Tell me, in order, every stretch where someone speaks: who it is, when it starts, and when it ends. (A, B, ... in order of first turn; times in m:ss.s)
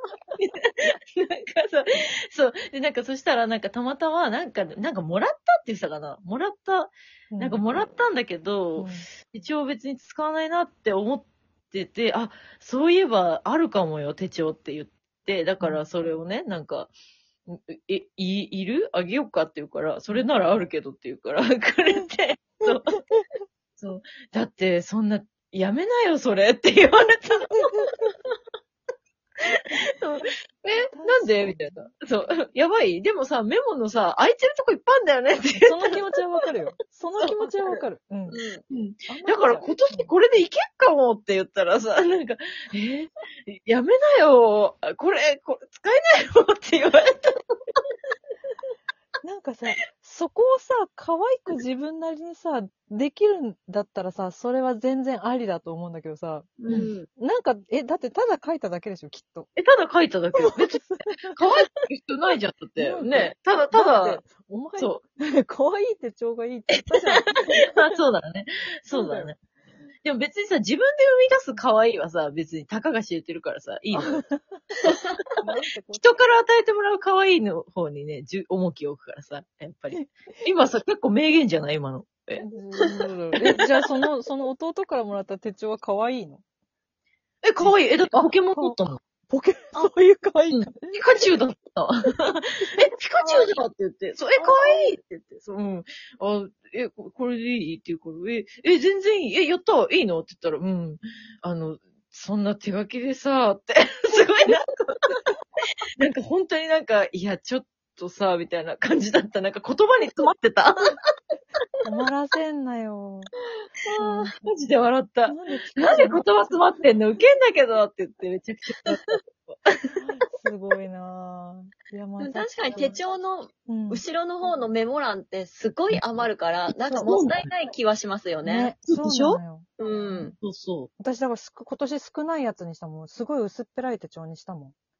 0:00.4-0:16.9 A
0:07.3-0:07.6 B
0:08.8-0:09.1 B
0:17.5-0:23.0 A
0:23.8-0:28.3 A
0:29.8-0:36.0 A
0:30.9-0:31.9 B
0:35.6-0:38.4 B
0:37.2-0:37.5 A
0:38.3-0:38.6 C
0:38.7-0:47.8 A
0:39.1-0:40.1 B
0:49.2-0:59.5 B
0:56.6-0:57.1 C
0:56.6-0:56.9 A
0:59.6-1:04.2 A
1:00.3-1:01.4 B
1:02.8-1:07.7 B
1:06.9-1:07.2 A
1:07.7-1:09.4 A
1:08.9-1:09.3 B
1:10.0-1:14.2 A
1:13.9-1:14.7 B
1:15.4-1:16.3 B
1:16.0-1:22.4 A
1:22.4-1:26.4 B
1:27.4-1:29.0 A
1:27.6-1:31.0 B
1:30.5-1:45.1 A
1:33.2-1:33.6 C
1:34.4-1:34.9 C
1:46.0-1:51.0 A
1:51.8-1:53.3 B
1:53.9-1:54.3 C
1:54.0-1:54.5 B
1:54.4-1:59.6 A
1:55.3-1:56.3 B
1:58.9-1:59.2 C
2:00.0-2:03.0 B
2:02.2-2:08.7 C
2:03.7-2:04.0 B
2:05.9-2:06.2 A
2:06.8-2:07.2 B
2:07.0-2:07.5 A
2:08.4-2:10.4 B
2:08.9-2:09.4 A
2:09.8-2:10.3 C
2:10.4-2:10.9 A
2:11.0-2:14.8 B